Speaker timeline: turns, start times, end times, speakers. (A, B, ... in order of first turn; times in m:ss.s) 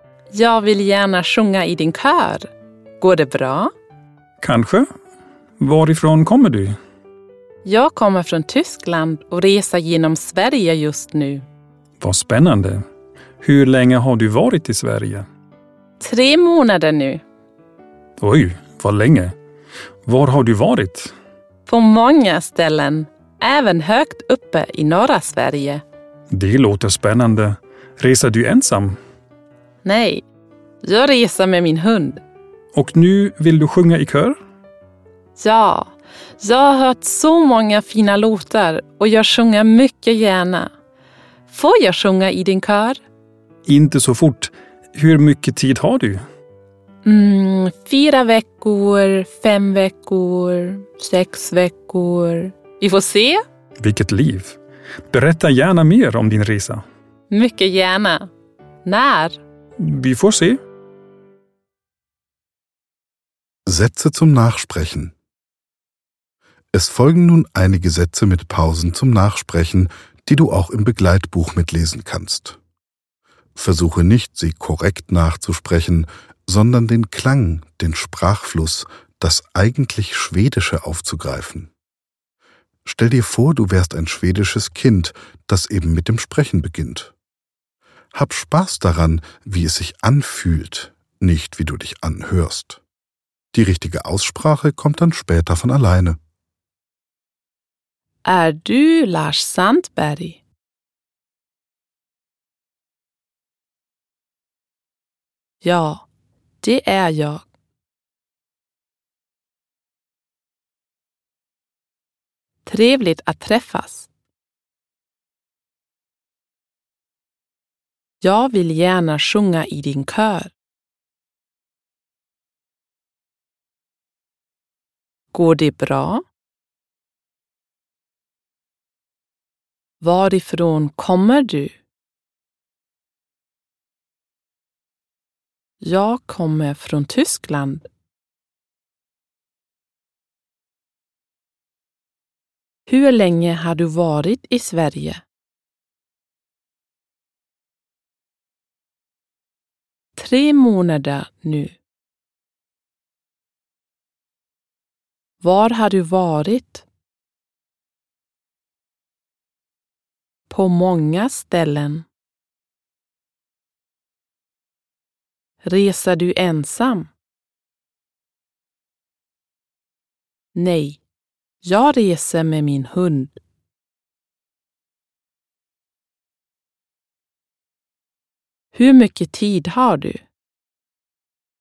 0:00.3-0:02.5 A
0:03.0-0:03.7 A
0:04.4-0:04.8 B
0:05.6-0:06.8 B
0:07.6-0:11.4 A
0:12.0-0:12.8 B
0:13.4-0:15.2 B
0:16.0-0:17.2 A
0:18.2-0:19.3 B
0:20.0-0:21.1 B
0:21.6-0:25.8 A
0:26.3-0:29.0 B
0:29.8-0:30.2 A
0:30.8-0:32.2 A
0:32.7-0:34.4 B
0:35.4-0:40.7 A
0:41.5-0:43.0 A
0:43.6-0:46.2 B
0:47.0-0:53.4 A
0:53.8-0:54.6 B
0:55.1-0:56.8 B
0:57.3-0:58.3 A
0:58.8-0:59.4 A
0:59.8-1:00.6 B
1:03.7-1:05.1 C
1:06.7-1:12.6 C
1:13.6-1:21.7 C
1:22.8-1:27.1 C
1:28.1-1:32.8 C
1:33.5-1:36.2 C
1:38.2-1:40.4 A
1:45.6-1:46.0 A
1:46.6-1:47.4 A
1:52.6-1:54.1 A
1:58.2-2:00.5 A
2:05.3-2:06.2 A
2:10.0-2:11.7 A
2:15.8-2:17.9 A
2:22.9-2:25.2 A
2:30.2-2:31.8 A
2:35.4-2:36.8 A
2:40.5-2:42.0 A
2:45.6-2:47.1 A
2:50.5-2:51.0 A
2:51.6-2:53.4 A
2:58.7-3:00.2 A